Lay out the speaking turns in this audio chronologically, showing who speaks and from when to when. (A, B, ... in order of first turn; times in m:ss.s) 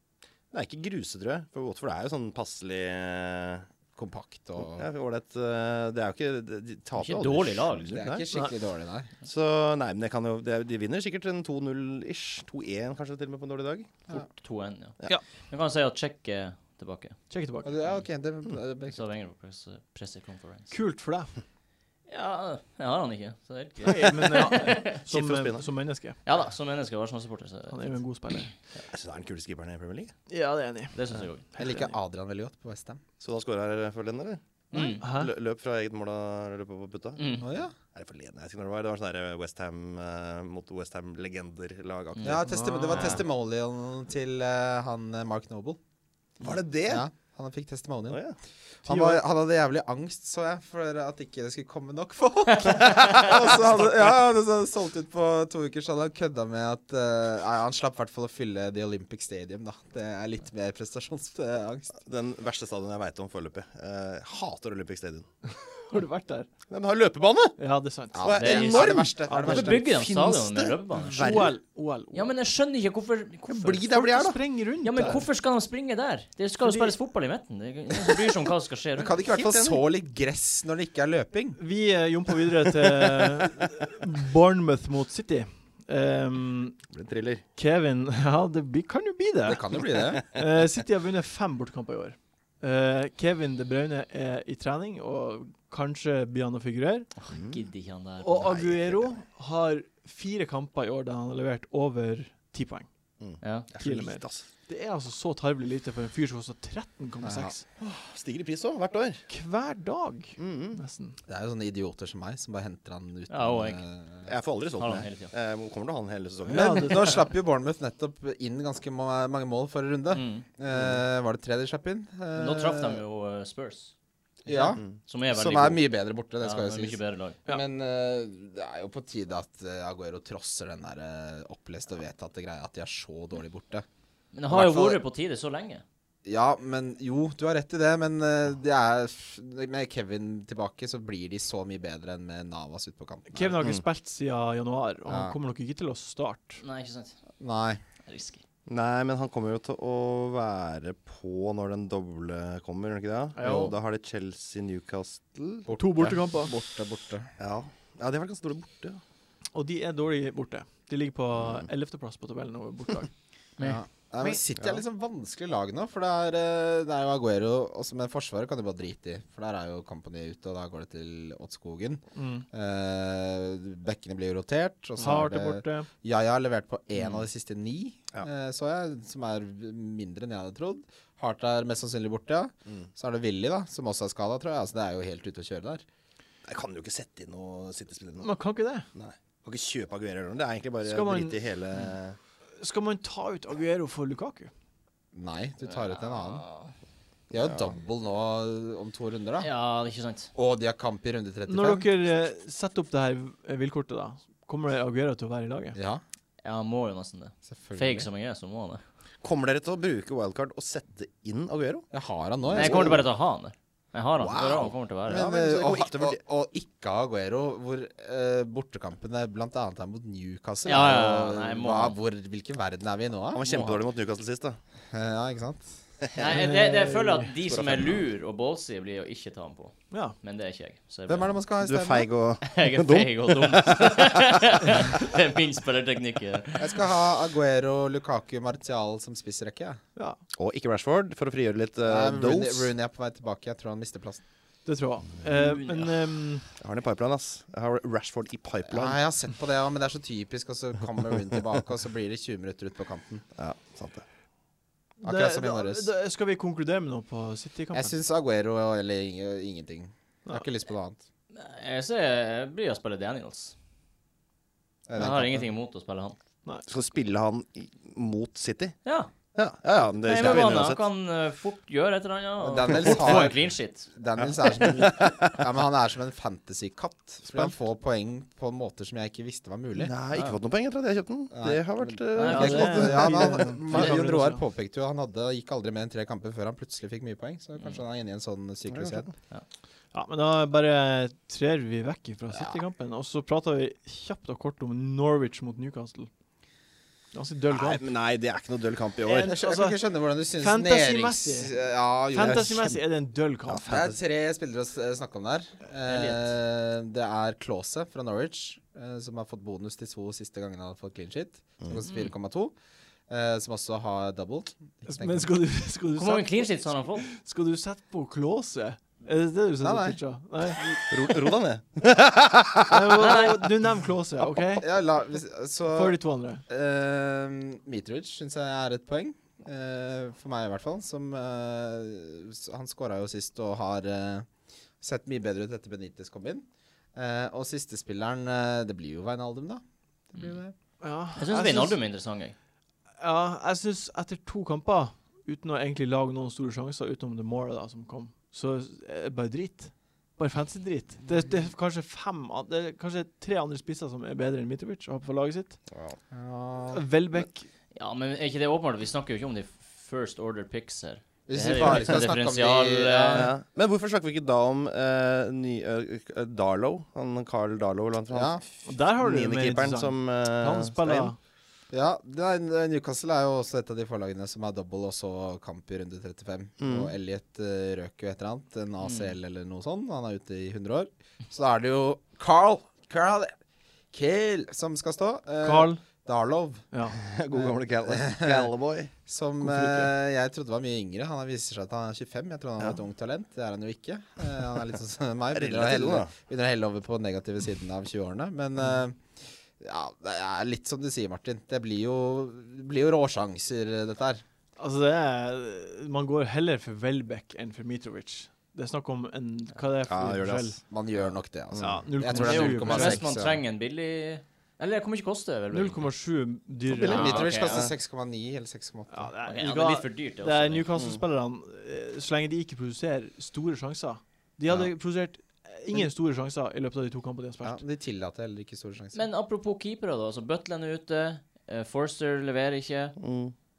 0:00.5-0:03.7 A
0:04.0-0:04.9 B
0:04.6-0:08.2 A
0:07.0-0:08.0 C
0:07.9-0:09.1 B
0:09.2-0:13.9 A
0:14.1-0:17.2 C
0:17.3-0:17.7 D
0:17.6-0:19.0 B
0:18.9-0:20.7 C
0:20.7-0:21.3 D
0:22.1-0:25.0 C
0:23.8-0:26.2 D
0:25.1-0:25.7 A
0:26.2-0:27.9 C
0:27.7-0:28.5 D
0:28.9-0:30.1 A
0:30.3-0:31.0 D
0:30.9-0:31.4 C
0:31.6-0:31.9 D
0:31.6-0:33.0 B
0:33.2-0:37.3 A
0:34.7-0:35.0 C
0:35.0-0:35.3 D
0:37.2-0:37.5 C
0:37.4-0:37.7 B
0:37.9-0:42.4 A
0:42.2-0:45.8 B
0:42.4-0:43.2 D
0:46.4-0:47.1 A
0:46.9-0:48.2 B
0:48.1-0:48.4 A
0:48.8-1:02.0 B
0:48.9-0:49.2 D
0:52.7-0:53.2 C
0:52.8-0:53.9 A
1:02.0-1:05.3 A
1:05.5-1:06.5 D
1:06.7-1:07.6 A
1:07.6-1:08.3 D
1:08.1-1:09.8 B
1:08.2-1:11.6 A
1:08.3-1:11.4 C
1:09.3-1:09.8 D
1:11.0-1:12.3 D
1:12.1-1:14.1 C
1:13.5-1:14.4 A
1:13.9-1:15.2 D
1:14.8-1:19.2 C
1:16.6-1:16.9 D
1:19.0-1:21.6 B
1:19.2-1:19.8 A
1:21.6-1:26.8 D
1:26.9-1:27.4 A
1:27.6-1:37.1 D
1:29.5-1:30.2 B
1:37.2-1:39.1 C
1:37.3-1:37.6 A
1:38.2-1:42.9 D
1:43.2-1:44.5 A
1:43.4-1:43.7 C
1:43.8-1:47.6 D
1:47.2-1:47.6 B
1:47.8-1:49.2 A
1:49.3-1:51.2 D
1:50.4-1:50.8 A
1:51.3-1:54.3 B
1:53.3-1:53.8 C
1:54.3-1:57.0 A
1:54.8-1:55.3 C
1:56.5-1:57.2 D
1:56.5-2:03.0 B
2:00.1-2:00.5 C
2:02.4-2:03.9 C
2:04.4-2:13.8 B
2:04.8-2:07.4 C
2:14.3-2:15.8 C
2:14.5-2:15.0 B
2:16.2-2:23.6 B
2:23.3-2:26.6 D
2:23.6-2:23.8 A
2:25.1-2:25.4 B
2:26.6-2:27.2 C
2:27.4-2:27.8 B
2:28.0-2:28.4 C
2:28.7-2:35.7 A
2:33.4-2:33.7 D
2:33.4-2:33.7 B
2:35.7-2:37.3 B
2:35.8-2:36.5 D
2:37.4-2:39.0 A
2:39.5-2:43.1 D
2:41.4-2:41.7 A
2:43.6-3:05.8 B
2:52.2-2:52.5 D
2:55.0-2:55.9 D
3:06.4-3:08.3 A
3:08.2-3:08.9 D
3:09.0-3:12.2 A
3:10.8-3:11.4 D
3:12.6-3:14.5 D
3:15.1-3:16.4 B
3:15.7-3:16.7 C
3:17.3-3:19.5 B
3:19.4-3:20.3 C
3:20.4-3:21.9 B
3:21.5-3:25.8 D
3:25.8-3:26.0 B
3:26.4-3:28.8 C
3:27.5-3:28.1 B
3:29.2-3:31.9 A
3:31.9-3:33.0 B
3:32.5-3:33.0 A
3:32.5-3:35.3 C
3:34.2-3:36.2 A
3:35.1-3:43.6 B
3:40.6-3:42.0 C
3:43.3-3:44.6 A
3:43.5-3:43.8 C
3:44.9-3:45.8 B
3:46.2-3:51.4 C
3:46.3-3:47.3 D
3:47.4-3:48.0 A
3:51.1-3:52.1 B
3:51.6-3:54.4 A
3:52.4-3:56.9 C
3:56.6-3:59.8 B
4:00.4-4:02.7 A
4:01.9-4:04.2 B
4:04.6-4:06.5 D
4:05.3-4:05.9 C
4:06.6-4:09.0 A
4:08.7-4:13.3 B
4:13.4-4:14.1 A
4:15.0-4:18.0 D
4:15.0-4:15.9 B
4:17.7-4:21.0 B
4:21.3-4:23.5 C
4:24.9-4:25.5 B
4:25.0-4:26.2 C
4:26.7-4:28.8 A
4:28.8-4:29.1 C
4:29.4-4:30.8 A
4:30.0-4:33.9 C
4:32.4-4:39.9 B
4:32.9-4:33.2 A
4:34.2-4:35.4 A
4:39.8-4:43.9 A
4:40.1-4:40.4 C
4:41.3-4:49.1 B
4:42.2-4:43.1 C
4:42.2-4:44.4 D
4:48.7-4:49.1 A
4:49.9-4:56.1 D
4:52.3-4:52.6 B
4:57.1-4:57.8 D
4:57.5-4:59.3 A
4:59.0-4:59.8 D
4:59.2-5:02.7 B
5:00.4-5:03.8 D
5:02.2-5:02.7 A
5:03.5-5:04.0 A
5:03.7-5:12.5 B
5:05.9-5:06.3 C
5:11.8-5:12.1 C
5:13.1-5:15.3 B
5:14.9-5:20.8 D
5:16.0-5:17.1 C
5:19.6-5:20.0 B
5:20.9-5:23.2 A
5:22.7-5:24.7 D
5:23.0-5:23.4 C
5:24.3-5:34.3 B
5:25.7-5:26.4 D
5:34.8-5:40.6 B
5:40.8-5:41.8 D
5:41.2-5:42.4 C
5:43.0-5:55.6 D
5:55.7-5:56.0 A
5:56.1-5:56.9 B
5:56.7-5:57.5 D
5:57.8-6:03.3 C
6:01.3-6:03.3 B
6:01.6-6:02.0 A
6:03.1-6:11.1 A
6:08.1-6:08.4 B
6:08.6-6:11.2 D
6:11.7-6:23.4 B
6:16.6-6:16.9 A
6:18.8-6:19.1 C
6:23.9-6:26.7 B
6:25.4-6:25.8 D
6:26.7-6:27.0 D
6:27.0-6:28.9 A
6:27.4-6:28.5 B
6:29.1-6:44.2 B
6:29.4-6:29.9 D
6:35.3-6:36.1 A
6:44.6-6:50.6 D
6:49.8-6:50.6 A
6:50.7-6:53.4 B
6:51.5-6:51.8 A
6:51.6-6:53.0 D
6:52.1-6:55.9 C
6:55.5-6:57.1 D
6:56.7-6:57.7 A
6:56.8-6:59.1 B
6:56.8-6:57.7 C
6:58.9-7:07.6 D
6:59.2-7:00.7 C
7:00.8-7:01.0 A
7:07.4-7:09.0 B
7:08.9-7:13.0 C
7:13.0-7:13.3 A